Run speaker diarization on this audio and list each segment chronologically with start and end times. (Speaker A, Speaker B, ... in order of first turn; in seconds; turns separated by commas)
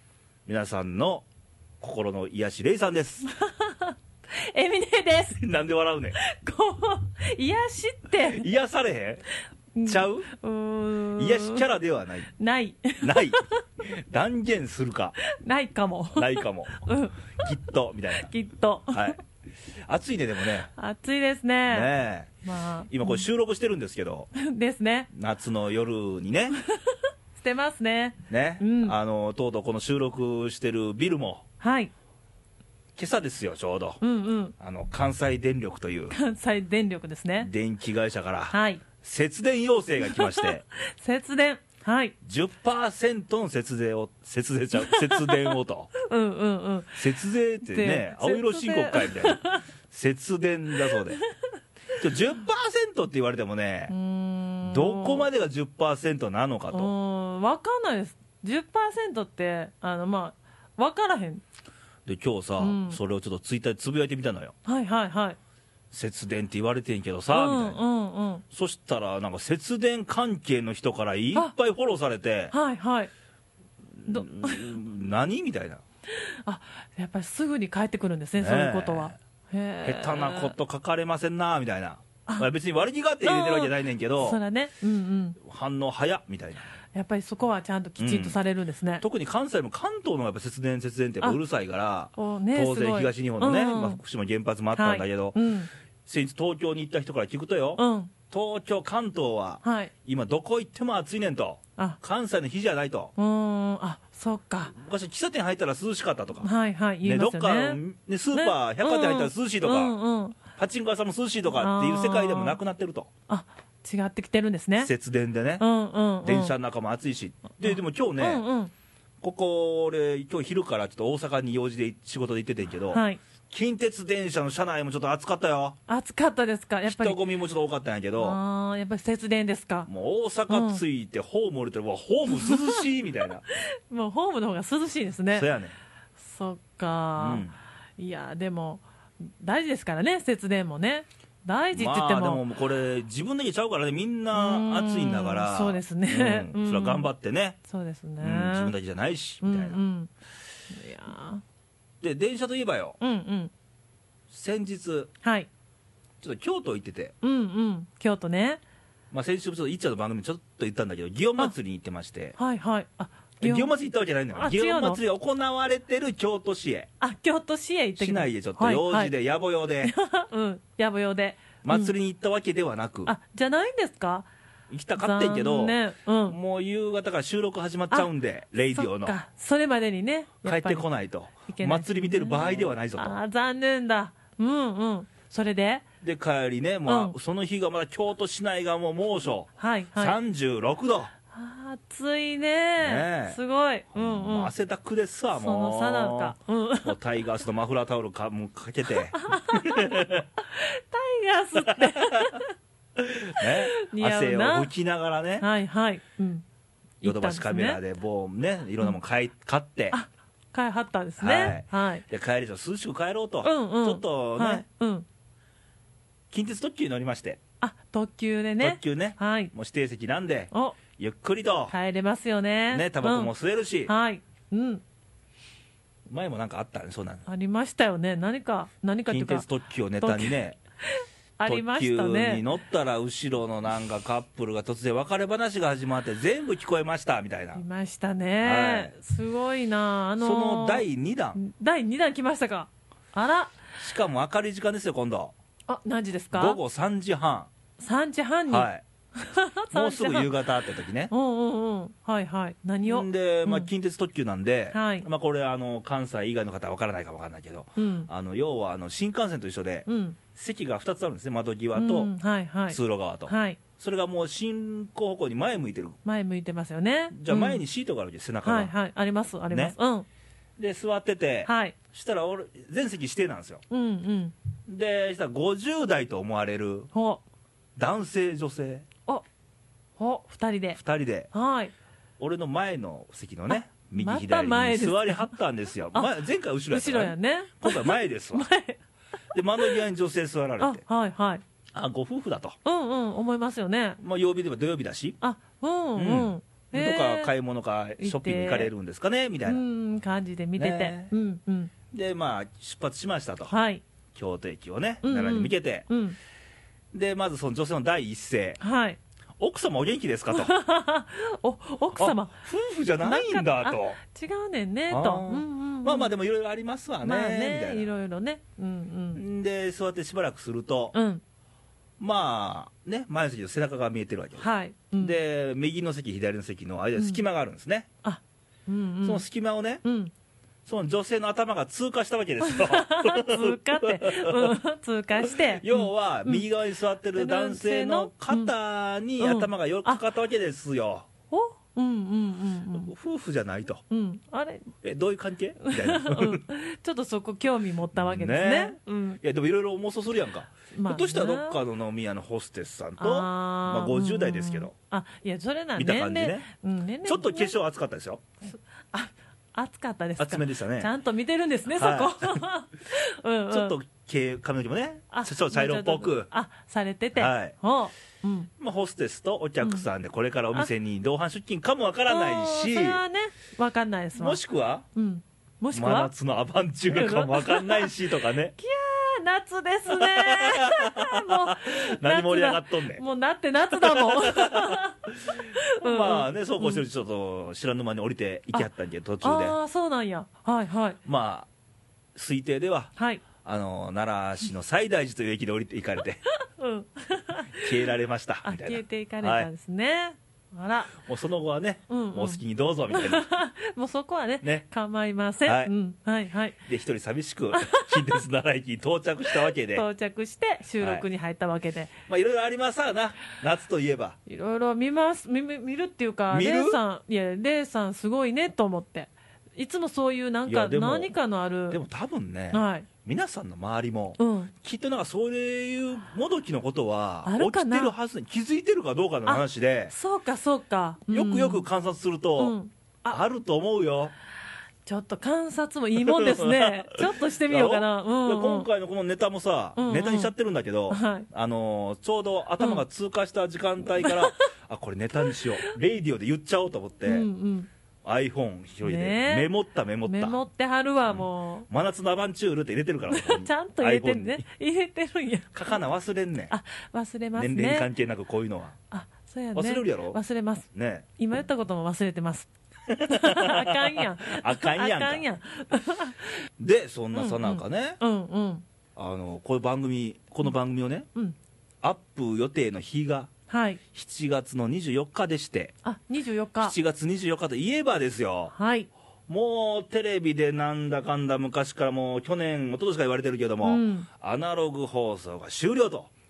Speaker A: 0.5-1.2, Speaker A: 1.8-3.3, Speaker B: 3.3-5.4, Speaker A: 5.3-6.2, Speaker B: 6.2-8.5, Speaker A: 8.3-9.2, Speaker B: 9.7-11.6, Speaker A: 9.8-10.3, Speaker A: 11.2-12.3, Speaker B: 12.4-13.6, Speaker A: 13.0-15.2, Speaker B: 15.2-17.4, Speaker A: 16.1-16.8, Speaker A: 17.4-18.3, Speaker B: 18.1-19.2, Speaker A: 18.9-19.2, Speaker A: 19.9-20.7, Speaker B: 20.7-21.9, Speaker A: 21.7-22.3, Speaker B: 22.4-23.2, Speaker A: 22.9-24.3, Speaker B: 24.4-25.1, Speaker A: 25.1-26.6, Speaker B: 26.7-28.9, Speaker A: 28.3-31.4, Speaker B: 31.6-31.9, Speaker A: 33.0-34.0, Speaker B: 34.0-34.5, Speaker A: 34.6-36.1, Speaker B: 36.1-37.5, Speaker A: 37.4-40.6, Speaker B: 38.5-38.8, Speaker B: 40.0-42.1, Speaker A: 42.2-45.9, Speaker B: 44.8-47.1, Speaker A: 47.0-51.2, Speaker B: 47.6-49.6, Speaker A: 52.0-53.9, Speaker B: 53.9-55.3, Speaker A: 54.6-56.9, Speaker B: 56.7-61.4, Speaker A: 62.0-64.5, Speaker B: 62.6-63.0, Speaker B: 64.6-65.4, Speaker A: 65.9-67.8, Speaker B: 67.3-68.4, Speaker A: 68.5-72.5, Speaker B: 72.5-73.1, Speaker A: 74.0-75.8, Speaker B: 74.1-74.7, Speaker B: 76.1-80.5, Speaker A: 78.4-79.2, Speaker A: 79.8-84.4, Speaker B: 83.2-85.4, Speaker A: 85.4-86.6, Speaker B: 86.9-89.0, Speaker A: 88.0-88.4, Speaker A: 89.0-95.4, Speaker B: 92.2-94.0, Speaker B: 94.7-95.7, Speaker A: 96.0-103.1, Speaker B: 97.8-98.1, Speaker B: 99.6-99.9, Speaker B: 103.2-104.7, Speaker A: 104.7-106.5, Speaker B: 106.4-107.8, Speaker A: 107.0-109.9, Speaker B: 108.3-110.4, Speaker A: 110.5-113.1, Speaker B: 111.5-112.6, Speaker B: 113.3-114.9, Speaker A: 114.8-115.6, Speaker B: 115.6-116.5, Speaker A: 116.2-118.4, Speaker B: 117.6-118.7, Speaker A: 119.2-125.8, Speaker B: 122.9-123.2, Speaker B: 125.9-127.2, Speaker A: 126.8-128.4, Speaker B: 128.2-129.9, Speaker A: 129.9-133.4, Speaker B: 130.5-130.8, Speaker B: 132.3-132.8, Speaker B: 133.5-135.5, Speaker A: 135.3-135.7, Speaker B: 136.2-137.4, Speaker A: 137.2-137.5, Speaker B: 138.0-142.4, Speaker A: 141.7-147.6, Speaker B: 144.3-147.1, Speaker B: 147.6-148.7, Speaker A: 148.2-149.8, Speaker B: 149.4-150.1, Speaker B: 150.7-151.4, Speaker A: 152.0-153.0, Speaker B: 153.0-153.5, Speaker A: 154.3-155.1, Speaker B: 155.2-155.5, Speaker A: 156.2-157.1, Speaker B: 157.2-158.6, Speaker A: 159.1-162.3, Speaker B: 162.4-163.7, Speaker A: 163.4-166.9, Speaker B: 164.3-165.0, Speaker B: 167.0-169.1, Speaker A: 168.0-169.9, Speaker B: 169.8-171.9, Speaker A: 171.6-173.1, Speaker B: 173.0-174.3, Speaker A: 174.7-175.8, Speaker B: 175.0-176.4, Speaker A: 176.3-179.1, Speaker B: 178.7-180.8, Speaker A: 180.4-183.2, Speaker B: 181.4-185.8, Speaker A: 186.0-191.1, Speaker B: 186.8-187.1, Speaker B: 189.6-190.2, Speaker B: 191.3-194.5, Speaker A: 192.8-193.4, Speaker A: 193.9-200.2, Speaker B: 195.3-196.9, Speaker B: 199.2-202.5, Speaker A: 201.7-202.4, Speaker A: 202.9-205.4, Speaker B: 203.4-204.7, Speaker B: 205.4-206.4, Speaker B: 207.0-207.8, Speaker A: 207.0-210.0, Speaker B: 209.9-212.1, Speaker A: 211.2-214.6, Speaker B: 213.4-215.1, Speaker A: 216.3-217.4, Speaker B: 217.6-219.5, Speaker A: 218.6-221.7, Speaker B: 220.5-220.8, Speaker B: 221.7-223.3, Speaker A: 222.7-223.9, Speaker B: 223.8-224.8, Speaker A: 226.1-227.2, Speaker B: 227.2-229.4, Speaker A: 229.1-230.6, Speaker B: 230.0-230.4, Speaker B: 230.9-232.4, Speaker A: 231.4-237.6, Speaker B: 237.5-240.8, Speaker A: 238.4-238.9, Speaker A: 240.2-241.4, Speaker B: 241.3-243.6, Speaker A: 243.8-245.3, Speaker B: 245.7-246.6, Speaker A: 246.3-247.5, Speaker B: 247.8-250.4, Speaker A: 248.5-248.8, Speaker A: 249.7-251.1, Speaker B: 251.1-253.7, Speaker A: 252.8-262.1, Speaker B: 254.7-255.1, Speaker B: 257.8-258.1, Speaker B: 259.9-260.2, Speaker B: 261.7-263.6, Speaker A: 262.7-266.0, Speaker B: 266.0-267.6, Speaker A: 267.1-268.7, Speaker B: 268.4-270.1, Speaker A: 270.6-273.6, Speaker B: 271.4-271.8, Speaker B: 273.7-274.3, Speaker A: 274.7-276.9, Speaker B: 276.9-277.2, Speaker A: 277.8-278.9, Speaker B: 280.0-280.8, Speaker A: 280.8-281.3, Speaker B: 281.3-281.7, Speaker A: 282.2-288.5, Speaker B: 283.5-285.3, Speaker B: 286.7-288.8, Speaker A: 289.3-290.8, Speaker B: 290.6-291.4, Speaker A: 291.7-292.6, Speaker B: 292.6-294.0, Speaker A: 294.0-295.2, Speaker B: 295.2-297.3, Speaker A: 295.9-299.6, Speaker B: 298.0-298.7, Speaker B: 299.4-301.7, Speaker A: 300.6-301.1, Speaker A: 301.9-303.5, Speaker B: 303.5-303.8, Speaker A: 304.1-305.9, Speaker B: 305.0-306.1, Speaker A: 306.9-308.6, Speaker B: 308.6-309.0, Speaker A: 309.4-310.5, Speaker B: 310.3-312.4, Speaker A: 311.9-314.0, Speaker B: 313.0-316.1, Speaker A: 314.9-317.9, Speaker B: 317.0-319.2, Speaker A: 319.1-320.9, Speaker B: 320.9-321.2, Speaker A: 322.0-324.4, Speaker B: 324.4-325.2, Speaker A: 325.0-327.9, Speaker B: 326.9-327.2, Speaker B: 328.0-329.2, Speaker A: 329.0-329.8, Speaker B: 329.8-330.1, Speaker A: 330.6-334.6, Speaker B: 332.4-336.5, Speaker A: 335.2-341.1, Speaker B: 337.1-338.5, Speaker B: 339.2-340.0, Speaker B: 341.3-342.9, Speaker A: 342.8-343.8, Speaker B: 343.9-344.7, Speaker A: 344.8-346.4, Speaker B: 345.6-349.2, Speaker A: 347.9-354.7, Speaker B: 350.7-351.6, Speaker B: 353.0-357.5, Speaker A: 355.8-356.5, Speaker A: 357.0-358.2, Speaker B: 358.5-363.7, Speaker A: 360.2-360.9, Speaker A: 361.7-362.4, Speaker A: 363.5-366.3, Speaker B: 365.1-368.5, Speaker A: 367.1-367.6, Speaker A: 368.6-373.0, Speaker B: 369.6-369.9, Speaker B: 372.1-374.4, Speaker A: 374.1-374.8, Speaker B: 374.9-376.1, Speaker A: 375.7-378.5, Speaker B: 376.9-377.9, Speaker B: 378.6-386.8, Speaker A: 379.9-383.0, Speaker A: 383.7-389.6, Speaker B: 389.2-391.0, Speaker A: 391.0-391.5, Speaker A: 392.1-396.2, Speaker B: 392.9-393.2, Speaker B: 396.4-397.8, Speaker A: 397.6-399.5, Speaker B: 398.4-401.0, Speaker A: 401.0-403.2, Speaker B: 401.9-406.6, Speaker A: 405.4-405.7, Speaker A: 406.7-409.9, Speaker B: 407.5-408.2, Speaker B: 409.3-411.9, Speaker A: 410.8-411.0, Speaker A: 412.1-414.2, Speaker B: 414.2-421.8, Speaker A: 416.3-416.8, Speaker A: 420.4-421.1, Speaker A: 421.7-429.9, Speaker B: 422.5-422.9, Speaker B: 424.2-424.5, Speaker B: 427.2-427.9, Speaker B: 429.2-431.6, Speaker A: 431.1-432.6, Speaker B: 432.4-433.2, Speaker A: 433.1-434.1, Speaker B: 434.9-438.7, Speaker A: 436.0-447.3, Speaker B: 439.8-440.3, Speaker B: 440.9-441.3, Speaker B: 444.0-444.4, Speaker B: 445.2-445.7, Speaker B: 447.0-447.7, Speaker A: 448.0-450.4, Speaker B: 448.8-449.5, Speaker B: 450.0-451.7, Speaker A: 451.1-454.4, Speaker B: 453.1-455.8, Speaker A: 455.5-456.5, Speaker B: 456.5-457.9, Speaker A: 457.4-458.8, Speaker B: 458.9-466.3, Speaker A: 459.5-460.2, Speaker A: 460.7-461.1, Speaker A: 462.9-465.2, Speaker A: 466.6-468.0, Speaker B: 467.1-468.6, Speaker A: 468.9-471.1, Speaker A: 471.8-473.3, Speaker B: 473.5-473.8, Speaker A: 473.9-475.7, Speaker B: 475.8-476.8, Speaker A: 476.6-478.5, Speaker B: 478.5-478.9, Speaker A: 479.3-486.1, Speaker B: 483.6-484.1